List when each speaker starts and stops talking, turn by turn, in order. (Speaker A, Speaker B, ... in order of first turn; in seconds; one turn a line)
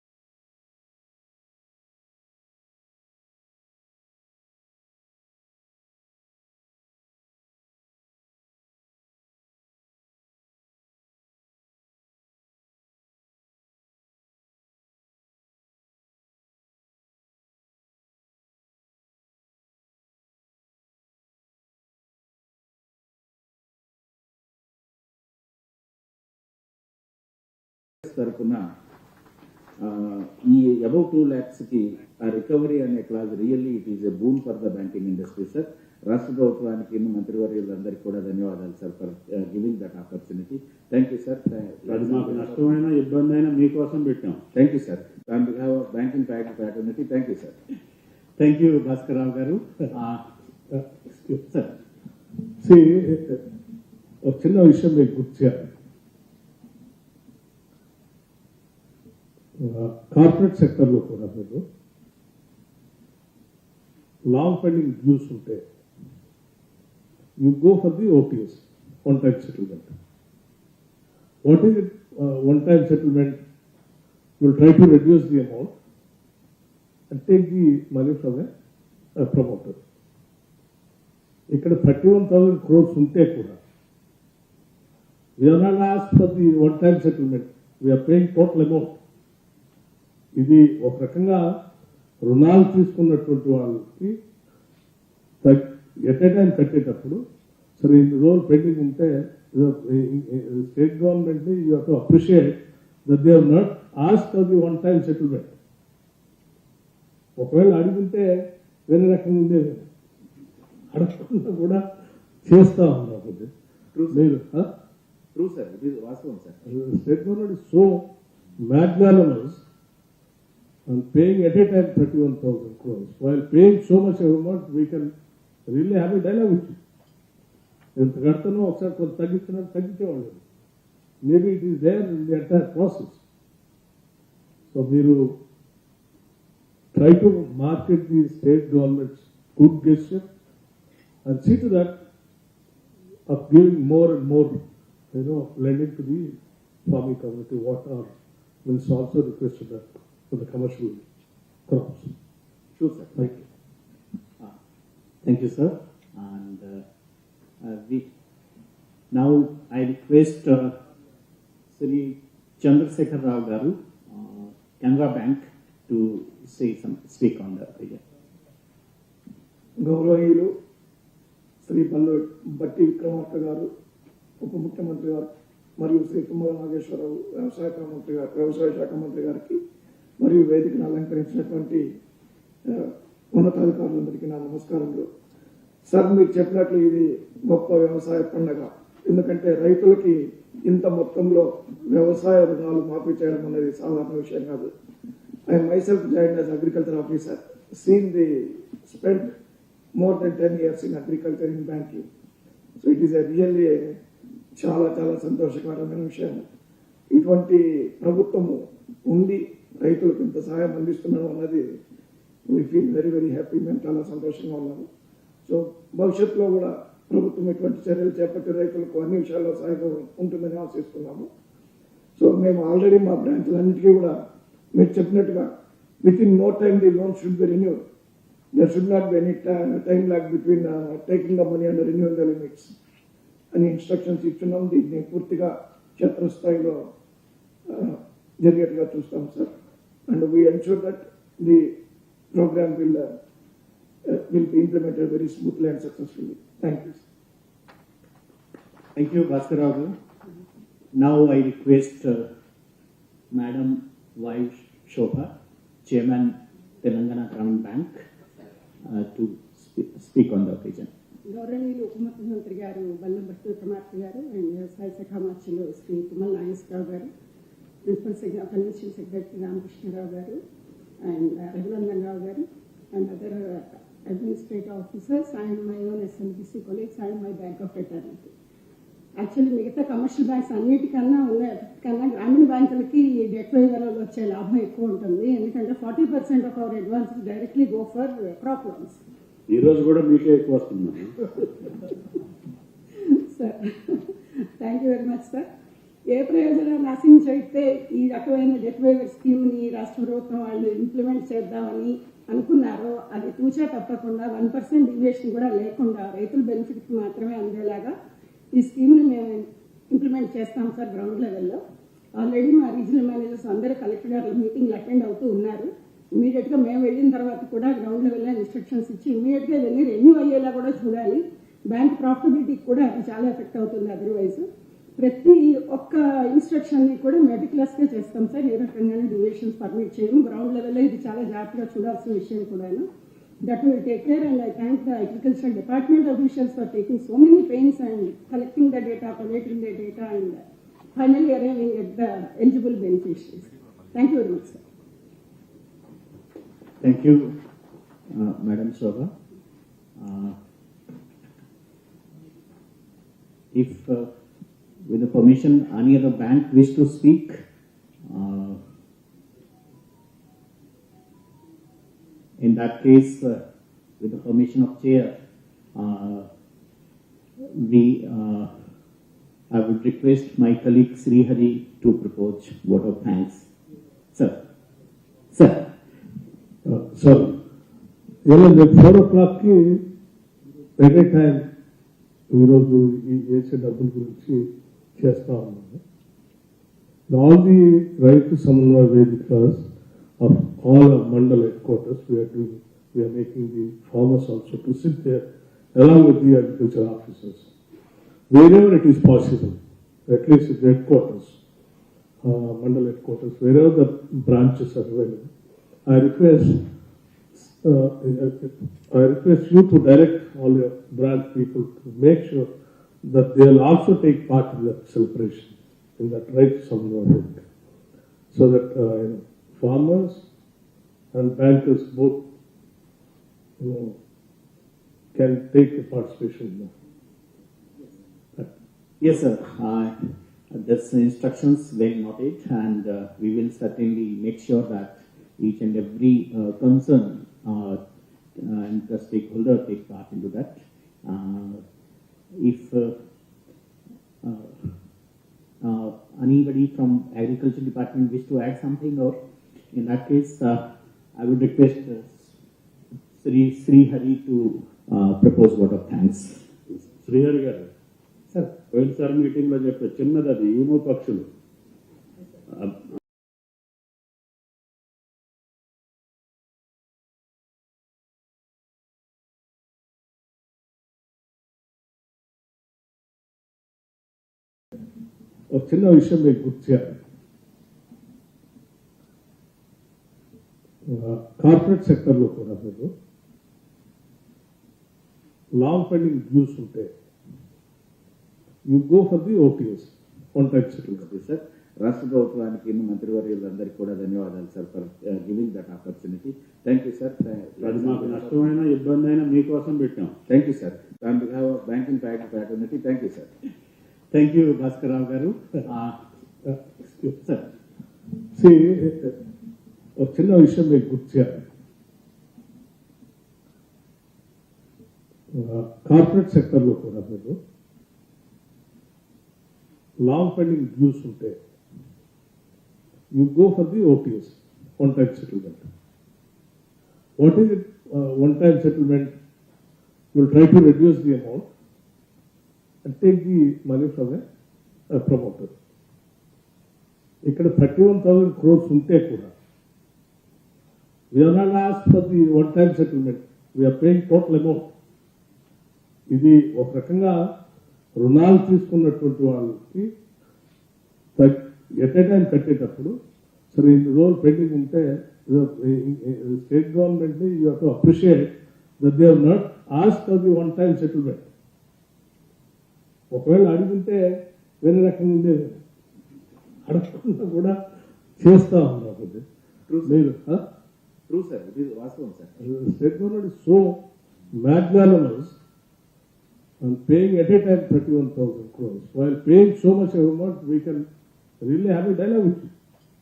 Speaker A: 28.0-28.7
Speaker A: 29.8-42.7
Speaker B: 41.9-44.4
Speaker A: 44.5-47.5
Speaker C: 48.4-50.2
Speaker D: 50.7-51.4
Speaker D: 52.6-53.4
Speaker D: 54.2-55.7
Speaker D: 59.6-61.6
Speaker D: 64.3-65.6
Speaker D: 67.4-69.9
Speaker D: 71.4-73.4
Speaker D: 74.4-75.7
Speaker D: 77.1-78.5
Speaker D: 79.2-79.8
Speaker D: 81.5-83.6
Speaker D: 85.4-89.0
Speaker D: 90.4-91.5
Speaker D: 92.2-94.2
Speaker D: 95.4-97.2
Speaker D: 97.8-105.5
Speaker D: 107.4-108.3
Speaker D: 108.9-109.8
Speaker D: 110.9-111.8
Speaker D: 112.4-113.5
Speaker A: 113.9-114.2
Speaker D: 114.1-114.7
Speaker A: 115.3-116.6
Speaker D: 116.7-118.0
Speaker D: 118.6-119.6
Speaker D: 120.9-125.1
Speaker D: 125.7-126.8
Speaker D: 128.0-130.4
Speaker D: 131.2-133.2
Speaker D: 134.7-135.3
Speaker D: 136.9-140.2
Speaker D: 141.2-142.0
Speaker D: 143.3-144.6
Speaker D: 145.1-146.3
Speaker D: 146.9-148.1
Speaker D: 148.6-151.0
Speaker D: 151.7-152.1
Speaker A: 152.7-153.3
Speaker D: 153.2-153.4
Speaker C: 155.2-156.8
Speaker C: 157.6-158.1
Speaker C: 159.1-160.7
Speaker C: 161.7-168.0
Speaker E: 169.8-170.5
Speaker E: 171.6-173.7
Speaker E: 174.4-175.3
Speaker E: 175.8-179.6
Speaker E: 180.2-181.8
Speaker E: 182.7-185.1
Speaker E: 185.9-194.7
Speaker E: 195.5-199.3
Speaker E: 200.0-202.1
Speaker E: 202.8-204.0
Speaker E: 204.6-206.4
Speaker E: 207.1-211.8
Speaker E: 212.5-214.9
Speaker E: 215.4-221.3
Speaker E: 222.2-224.2
Speaker E: 224.8-225.5
Speaker E: 226.0-227.8
Speaker E: 228.5-232.7
Speaker E: 233.5-236.9
Speaker E: 237.7-239.5
Speaker E: 240.1-241.7
Speaker E: 242.3-243.1
Speaker E: 244.1-247.0
Speaker C: 248.9-250.0
Speaker C: 250.9-252.3
Speaker C: 253.3-255.3
Speaker C: 255.8-258.0
Speaker C: 258.8-260.9
Speaker F: 261.3-267.1
Speaker F: 267.9-270.4
Speaker F: 271.0-278.3
Speaker F: 279.2-289.0
Speaker B: 289.5-291.2
Speaker F: 292.9-295.4
Speaker F: 296.1-307.9
Speaker F: 308.5-311.6
Speaker F: 312.2-324.5
Speaker F: 325.0-332.9
Speaker F: 333.4-340.4
Speaker F: 340.9-344.6
Speaker C: 346.8-347.4
Speaker C: 348.1-349.1
Speaker C: 350.0-350.4
Speaker C: 353.5-354.1
Speaker C: 354.9-357.4
Speaker C: 358.1-358.6
Speaker C: 362.4-363.4
Speaker C: 364.0-365.1
Speaker C: 365.7-366.3
Speaker C: 367.4-368.5
Speaker C: 369.5-373.5
Speaker C: 375.3-375.7
Speaker D: 376.6-377.4
Speaker D: 378.2-379.8
Speaker D: 380.8-381.5
Speaker D: 382.3-385.8
Speaker D: 387.1-389.6
Speaker D: 390.2-397.5
Speaker D: 398.3-401.4
Speaker D: 402.2-405.3
Speaker D: 405.9-406.6
Speaker D: 407.4-412.5
Speaker D: 413.0-417.4
Speaker D: 418.3-420.2
Speaker D: 421.1-422.2
Speaker D: 423.6-424.0
Speaker D: 425.1-426.7
Speaker C: 429.0-430.0
Speaker C: 430.5-437.8
Speaker C: 438.4-441.6
Speaker C: 442.3-442.9
Speaker C: 444.2-444.7
Speaker C: 445.6-449.1
Speaker C: 449.7-450.6
Speaker C: 451.1-452.3
Speaker C: 453.2-456.4
Speaker B: 456.8-457.7
Speaker B: 458.7-461.3
Speaker B: 462.5-462.9
Speaker D: 475.5-477.0
Speaker D: 480.9-482.9
Speaker D: 485.6-486.9
Speaker D: 488.7-491.1
Speaker A: 490.9-498.5
Speaker B: 497.6-500.1
Speaker A: 500.3-503.3
Speaker C: 504.1-506.0
Speaker D: 506.4-507.2
Speaker D: 508.3-509.2
Speaker D: 510.0-511.4
Speaker D: 515.3-517.4
Speaker D: 520.0-521.4
Speaker D: 523.1-525.6
Speaker D: 527.2-529.1
Speaker D: 530.1-531.5
Speaker D: 532.8-534.2
Speaker D: 534.9-535.5
Speaker D: 537.2-539.3
Speaker D: 541.1-544.7
Speaker D: 546.1-547.3
Speaker D: 548.0-549.9
Speaker D: 551.2-552.9
Speaker D: 553.5-561.3
Speaker D: 563.1-564.0
Speaker D: 564.6-565.6
Speaker D: 566.7-567.6
Speaker D: 568.2-569.2
Speaker A: 569.7-570.0
Speaker D: 569.8-570.4
Speaker A: 571.1-572.4
Speaker D: 572.4-573.8
Speaker D: 574.3-575.4
Speaker D: 576.6-580.9
Speaker D: 581.4-582.5